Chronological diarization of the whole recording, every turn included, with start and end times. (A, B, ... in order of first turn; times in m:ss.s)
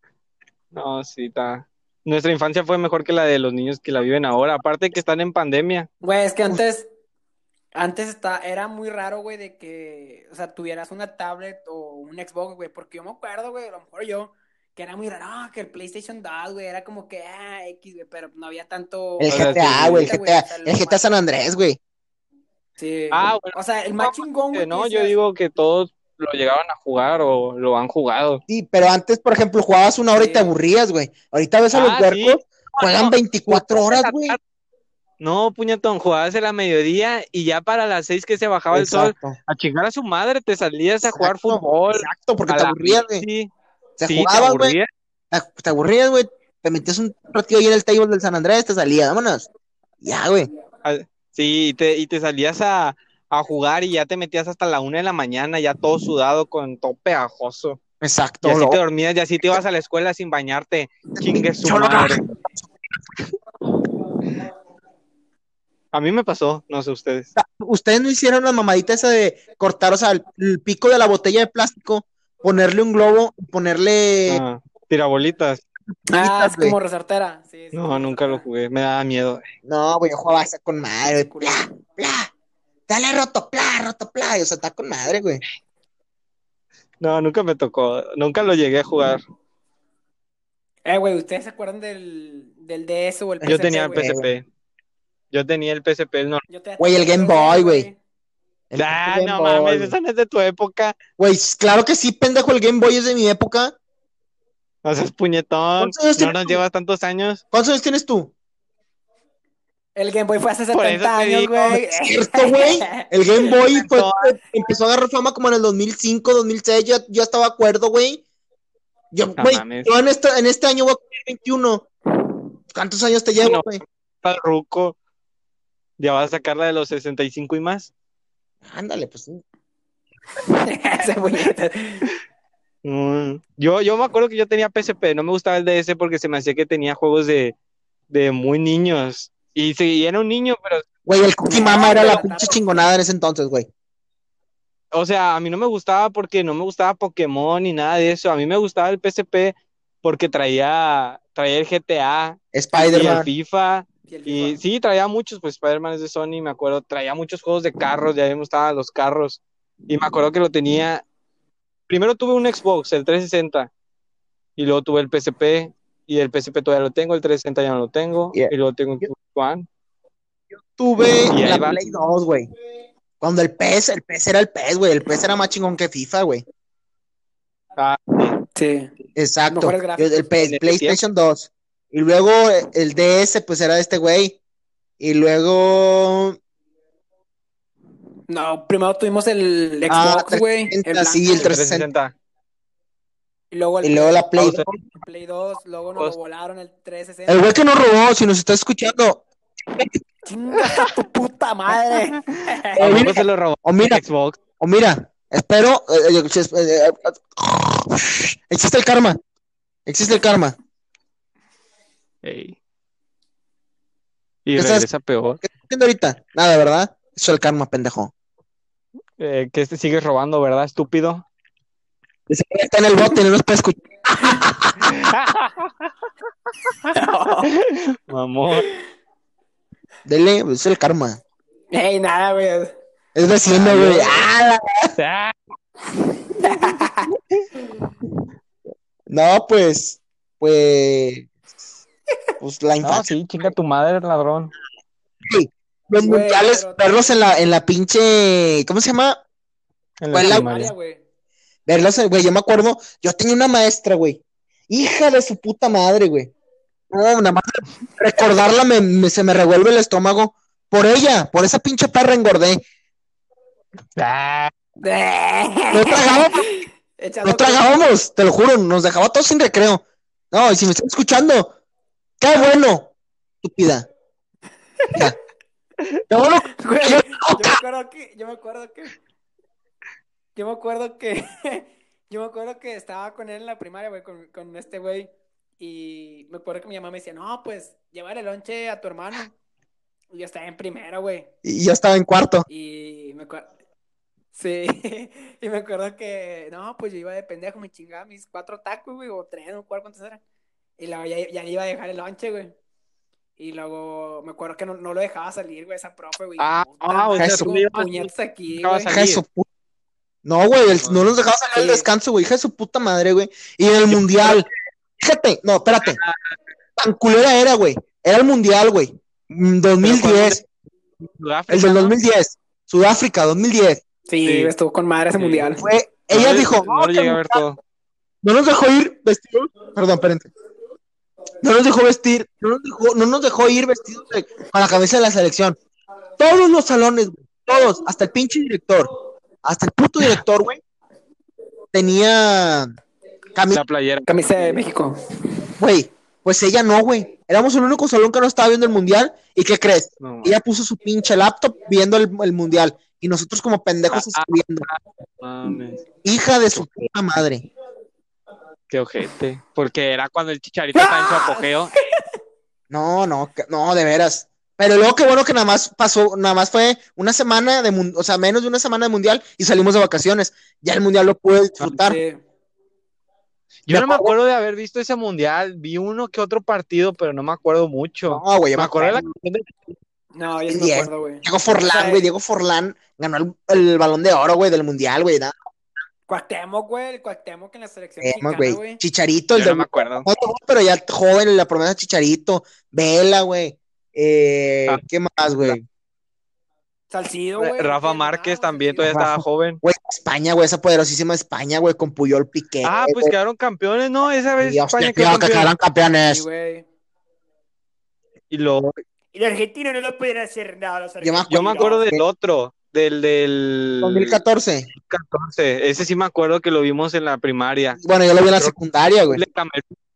0:00.7-0:05.9 A
0:06.0-0:06.9 B
0:07.7-0:21.0 B
0:19.2-0:21.8 C
0:19.3-0:20.1 A
0:22.8-0:25.1 B
0:23.1-0:28.4 A
0:28.5-0:34.4 C
0:30.2-0:30.5 B
0:31.7-0:34.4 A
0:35.2-0:43.5 A
0:38.7-0:39.4 C
0:41.1-0:43.2 C
0:44.0-0:44.8 C
0:44.0-0:44.9 A
0:45.3-0:49.5 C
0:50.0-0:50.5 C
0:50.8-0:57.8 A
0:58.0-0:58.8 C
0:58.4-1:02.2 A
1:01.2-1:02.7 C
1:05.9-1:07.3 A
1:07.4-1:14.4 C
1:14.3-1:15.6 A
1:16.1-1:18.4 B
1:16.1-1:16.8 C
1:17.7-1:19.4 A
1:19.6-1:22.3 C
1:21.0-1:21.7 B
1:22.9-1:25.4 C
1:27.0-1:29.2 A
1:30.8-1:34.2 B
1:33.4-1:34.3 C
1:33.4-1:34.4 A
1:35.3-1:36.4 A
1:36.5-1:38.0 B
1:36.8-1:37.9 C
1:38.7-1:40.0 C
1:38.8-1:41.0 A
1:41.2-1:43.7 C
1:44.8-1:47.4 A
1:45.8-1:46.6 C
1:47.5-1:48.3 C
1:50.0-1:53.1 B
1:50.7-1:51.8 A
1:51.6-1:58.2 C
1:53.7-1:54.4 A
1:59.1-2:01.9 C
1:59.4-1:59.9 A
2:02.7-2:03.8 C
2:03.4-2:05.0 A
2:06.0-2:07.9 A
2:08.6-2:09.4 C
2:10.5-2:12.1 B
2:12.8-2:17.5 A
2:18.1-2:20.8 A
2:21.0-2:23.7 C
2:21.5-2:22.8 B
2:24.9-2:41.0 A
2:32.5-2:33.3 C
2:34.1-2:34.6 B
2:41.9-2:43.7 A
2:44.6-2:49.7 A
2:48.3-2:49.1 C
2:50.6-2:52.5 C
2:51.3-2:51.8 A
2:53.2-2:56.4 C
2:57.8-2:58.4 A
2:58.5-2:58.9 B
2:59.2-3:04.4 C
2:59.5-3:00.4 B
3:00.4-3:01.0 A
3:05.0-3:06.4 C
3:08.3-3:11.5 B
3:09.9-3:11.9 C
3:11.4-3:12.1 A
3:13.5-3:14.3 B
3:13.8-3:14.8 C
3:14.4-3:14.7 A
3:14.9-3:17.5 B
3:17.3-3:20.0 C
3:20.2-3:22.8 B
3:22.8-3:24.0 C
3:22.8-3:24.4 A
3:24.6-3:29.2 C
3:29.9-3:30.6 C
3:32.2-3:32.6 A
3:34.4-3:35.4 A
3:34.6-3:34.9 C
3:35.4-3:38.1 C
3:39.2-3:41.2 A
3:42.3-3:45.0 C
3:44.8-3:45.9 A
3:46.9-3:47.5 B
3:47.5-3:48.7 A
3:50.0-3:51.2 C
3:51.7-3:52.7 B
3:53.1-3:54.9 C
3:53.5-3:54.3 A
3:55.0-3:55.3 A
3:56.4-3:57.1 B
3:59.1-4:01.3 C
4:02.4-4:03.5 C
4:02.8-4:04.5 A
4:05.2-4:09.2 C
4:06.0-4:07.1 B
4:10.0-4:10.7 A
4:10.1-4:10.7 C
4:10.2-4:11.0 B
4:11.7-4:16.3 C
4:16.9-4:22.6 C
4:24.0-4:24.5 A
4:24.8-4:27.9 B
4:25.7-4:26.5 C
4:27.2-4:31.5 C
4:32.2-4:32.9 C
4:33.4-4:33.9 C
4:36.1-4:37.6 C
4:36.6-4:38.9 B
4:40.4-4:45.1 B
4:45.6-4:49.3 B
4:50.1-4:51.3 B
4:51.4-4:52.5 C
4:52.5-4:53.5 B
4:54.3-5:00.2 B
5:00.8-5:02.5 B
5:03.4-5:09.0 B
5:06.4-5:09.2 A
5:07.2-5:07.5 C
5:08.9-5:09.5 C
5:10.2-5:14.5 C
5:10.7-5:11.1 A
5:11.5-5:11.9 B
5:13.9-5:14.5 A
5:15.0-5:16.0 C
5:15.8-5:16.4 A
5:16.8-5:20.4 C
5:19.8-5:20.4 A
5:21.0-5:21.9 A
5:21.5-5:23.8 C
5:24.1-5:25.7 B
5:24.2-5:24.5 A
5:25.2-5:25.5 A
5:25.6-5:27.4 C
5:26.1-5:27.6 A
5:28.2-5:30.3 C
5:31.4-5:35.6 C
5:36.2-5:38.9 C
5:39.4-5:40.6 C
5:41.7-5:42.7 C
5:43.3-5:43.6 C
5:43.5-5:44.2 A
5:44.1-5:45.0 B
5:45.6-5:54.6 C
5:50.0-5:50.3 A
5:53.9-5:55.8 A
5:56.0-5:57.5 C
5:56.5-5:56.8 A
5:58.7-6:01.7 A
6:00.7-6:02.0 B
6:02.7-6:12.0 C
6:11.6-6:12.2 B
6:13.7-6:19.7 A
6:13.7-6:14.1 C
6:18.1-6:19.0 C
6:20.1-6:22.0 B
6:20.5-6:25.4 C
6:26.1-6:28.8 B
6:28.0-6:35.6 C
6:29.3-6:30.1 A
6:36.9-6:38.9 B
6:37.4-6:39.6 A
6:38.9-6:43.1 C
6:42.6-6:45.5 A
6:44.4-6:46.2 C
6:46.1-6:46.6 B
6:48.3-6:48.8 A
6:49.1-6:51.9 B
6:51.0-6:52.0 C
6:51.3-6:54.2 A
6:53.8-6:54.7 C
6:54.8-6:57.8 A
6:57.8-6:59.2 C
6:59.1-6:59.7 A